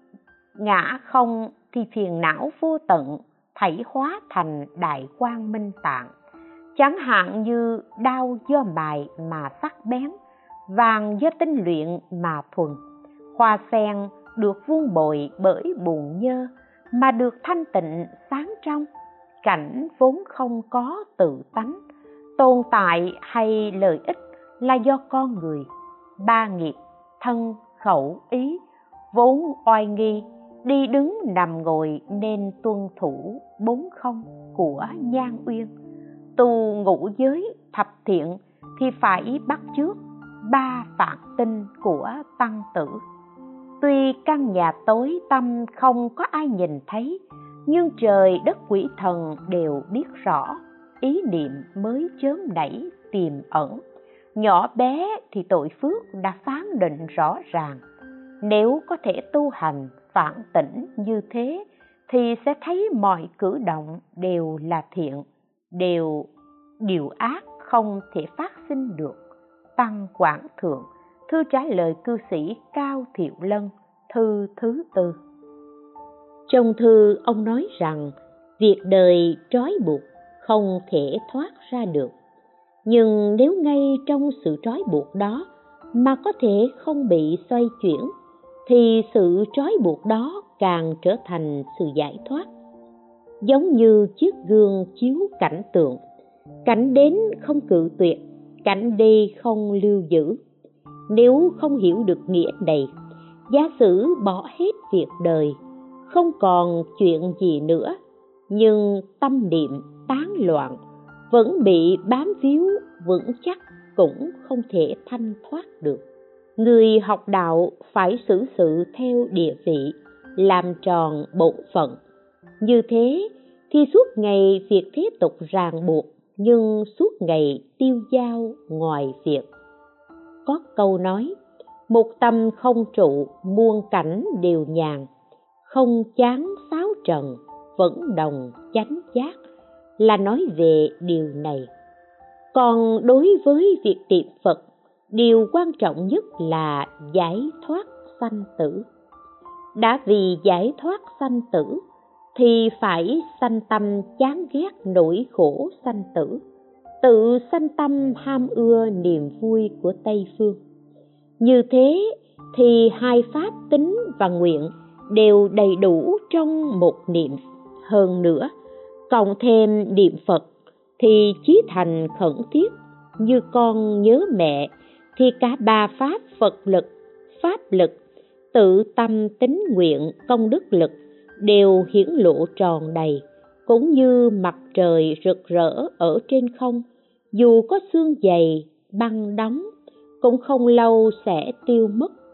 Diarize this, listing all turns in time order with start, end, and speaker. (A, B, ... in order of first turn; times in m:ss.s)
0:00.6-0:06.1 A
0:06.8-0:10.1 A
0:10.7-0:12.8 A
0:13.3-0:18.9 A
0:19.4-0:21.8 A
0:22.4-0:25.7 A
0:26.2-0:28.6 A
0:29.1-0:35.7 A
0:36.4-0:43.0 A
0:43.8-0:53.8 A
0:54.4-0:57.8 A
0:58.4-1:06.3 A
1:06.8-1:09.2 A
1:09.8-1:15.2 A
1:16.5-1:22.1 A
1:22.8-1:28.1 A
1:28.7-1:32.5 A
1:33.4-1:36.0 A
1:36.7-1:40.4 A
1:41.1-1:42.9 A
1:43.5-1:48.0 A
1:48.5-1:50.8 A
1:51.3-1:56.0 A
1:56.6-2:02.0 A
2:02.6-2:09.5 A
2:10.5-2:11.3 A
2:11.9-2:15.1 A
2:15.7-2:19.4 A
2:20.0-2:21.7 A
2:22.5-2:28.9 A
2:29.8-2:31.8 A
2:32.4-2:36.4 A
2:37.0-2:40.6 A
2:41.4-2:48.5 A
2:49.1-2:50.5 A
2:51.0-2:58.0 A
2:58.5-3:09.7 A
3:10.2-3:12.1 A